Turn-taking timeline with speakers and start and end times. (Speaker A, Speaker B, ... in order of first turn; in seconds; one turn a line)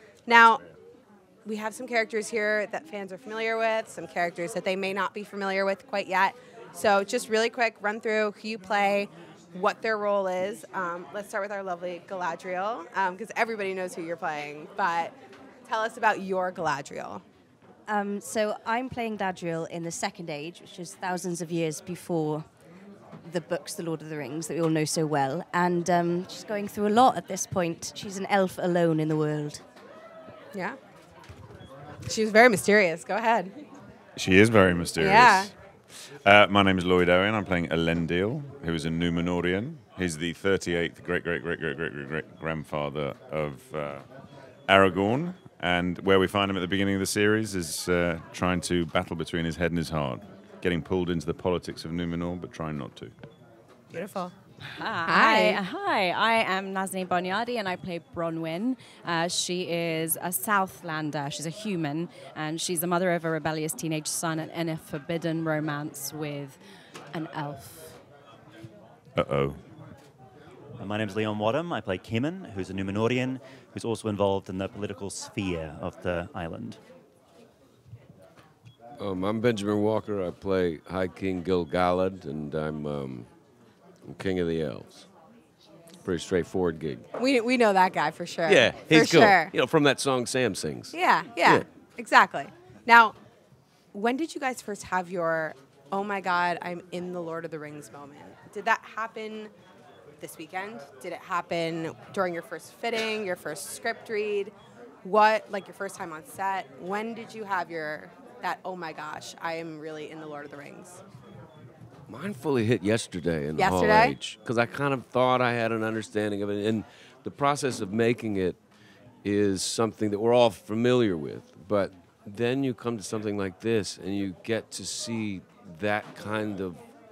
Speaker A: 0.2-0.6
Speaker A: 1.4-17.2
Speaker B: 17.9-22.4
Speaker B: 23.2-29.6
Speaker A: 30.5-30.8
Speaker A: 32.0-33.5
Speaker C: 34.1-44.0
Speaker A: 35.0-35.5
Speaker C: 44.7-53.1
Speaker A: 53.9-54.3
Speaker D: 54.7-66.6
Speaker A: 55.0-55.6
Speaker D: 67.1-68.0
Speaker C: 69.2-69.6
Speaker E: 70.8-76.8
Speaker F: 79.0-83.3
Speaker F: 84.0-85.0
Speaker F: 86.0-87.0
Speaker A: 87.2-89.5
Speaker F: 88.4-91.6
Speaker A: 90.9-93.2
Speaker A: 93.9-99.5
Speaker A: 100.2-111.0
Speaker F: 112.1-118.6
Speaker A: 113.5-114.2
Speaker F: 119.2-126.8